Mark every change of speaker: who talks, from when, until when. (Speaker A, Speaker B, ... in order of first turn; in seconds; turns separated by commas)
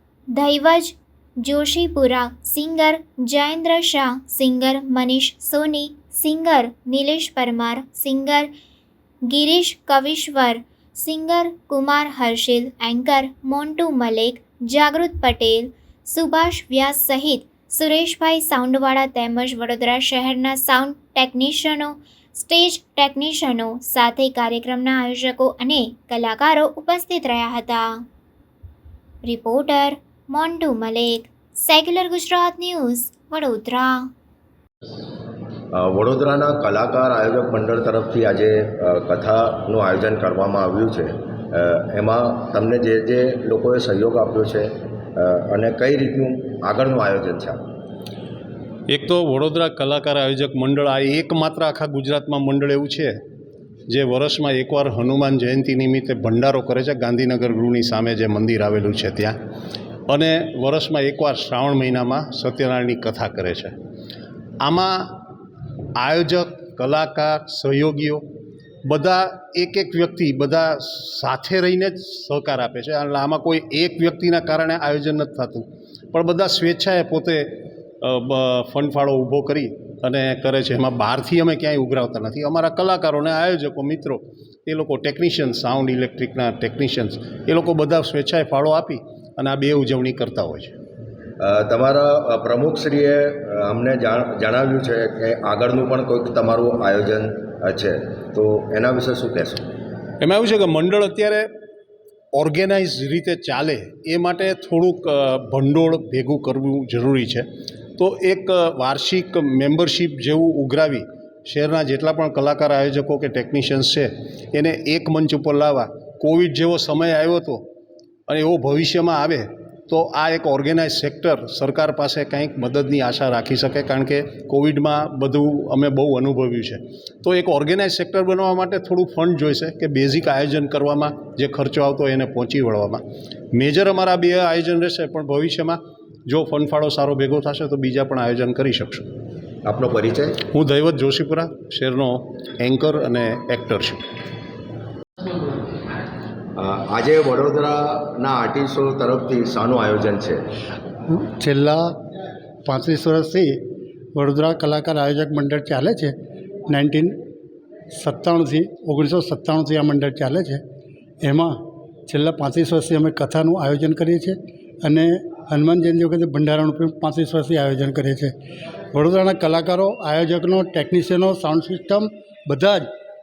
Speaker A: 0.3-8.5, Speaker A: 9.3-27.9, Speaker A: 29.2-34.1, Speaker B: 35.7-47.6, Speaker C: 48.9-53.1, Speaker C: 53.9-59.4, Speaker C: 60.1-63.8, Speaker C: 64.6-65.2, Speaker C: 66.0-68.2, Speaker C: 68.8-90.8, Speaker B: 91.4-99.7, Speaker C: 100.2-101.5, Speaker C: 102.3-107.5, Speaker C: 108.0-117.7, Speaker C: 118.3-139.1, Speaker B: 139.7-140.4, Speaker C: 140.5-144.0, Speaker B: 146.6-150.4, Speaker D: 151.1-151.8, Speaker D: 152.7-153.6, Speaker D: 154.2-156.1, Speaker D: 156.7-157.2, Speaker D: 158.0-160.6, Speaker D: 161.2-161.6, Speaker D: 162.1-168.3, Speaker D: 168.9-172.9